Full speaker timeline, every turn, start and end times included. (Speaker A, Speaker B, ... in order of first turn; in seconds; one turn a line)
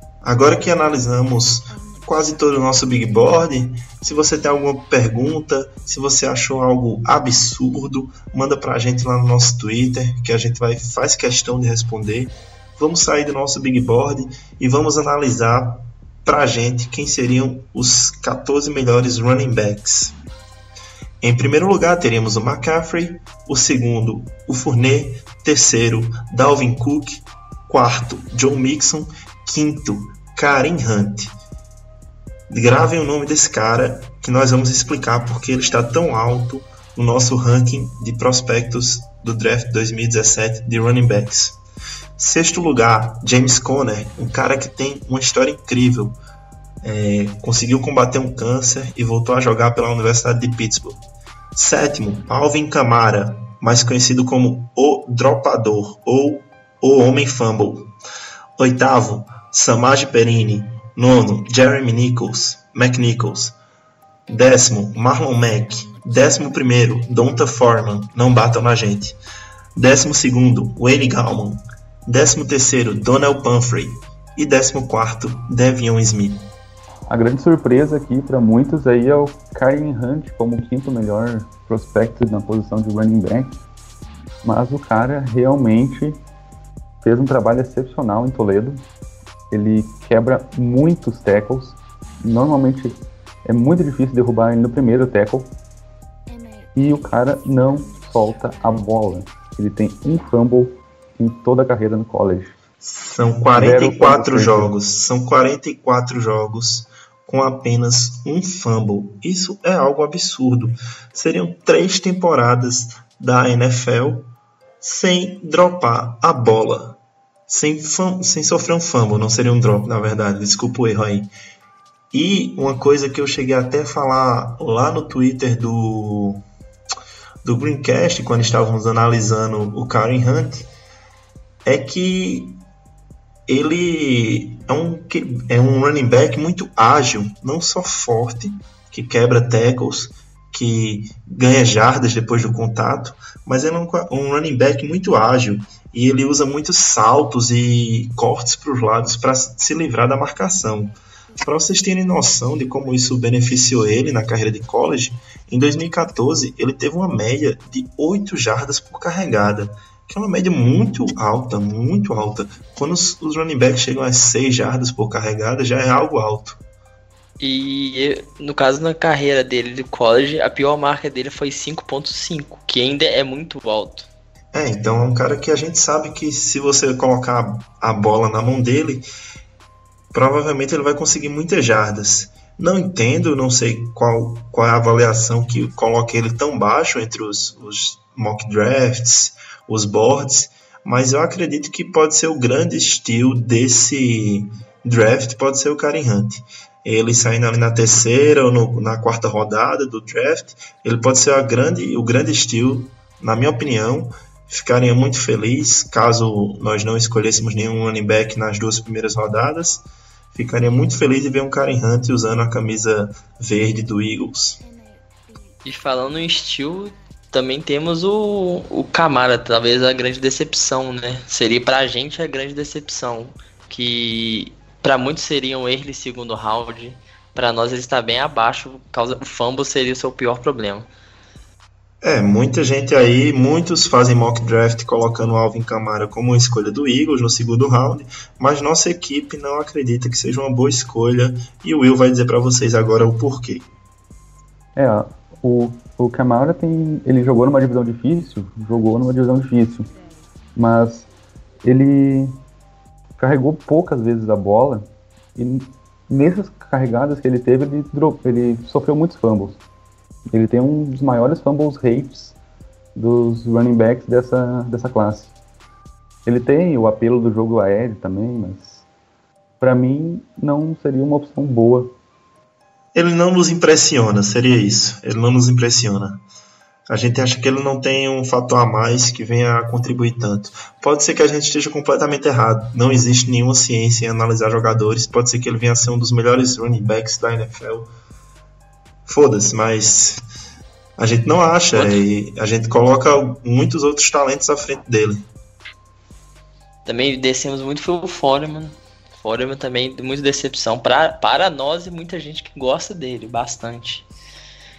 Speaker A: 0.2-20.1
Speaker A: 21.2-31.3
Speaker A: 32.5-41.6
Speaker A: 42.2-46.2
Speaker A: 46.8-51.0
Speaker A: 51.5-57.9
Speaker A: 58.6-63.5
Speaker A: 64.3-69.2
Speaker A: 69.8-76.5
Speaker B: 77.1-83.5
Speaker B: 84.4-86.2
Speaker B: 87.0-88.8
Speaker B: 89.5-95.5
Speaker B: 96.7-102.5
Speaker A: 102.8-121.3
Speaker B: 103.5-104.7
Speaker A: 122.1-126.4
Speaker A: 127.4-130.7
Speaker A: 131.6-132.6
Speaker A: 133.5-166.6
Speaker C: 167.4-174.1
Speaker A: 174.5-179.1
Speaker A: 180.1-214.6
Speaker C: 215.6-230.9
Speaker A: 232.0-243.7
Speaker B: 244.8-249.9
Speaker B: 250.5-251.1
Speaker B: 251.6-252.3
Speaker B: 253.2-254.8
Speaker B: 255.3-259.6
Speaker B: 260.3-262.4
Speaker B: 262.9-265.3
Speaker B: 266.2-268.8
Speaker B: 269.6-271.9
Speaker A: 272.9-276.2
Speaker A: 276.9-287.9
Speaker A: 289.1-290.2
Speaker A: 291.0-295.2
Speaker C: 291.7-292.0
Speaker C: 296.9-304.1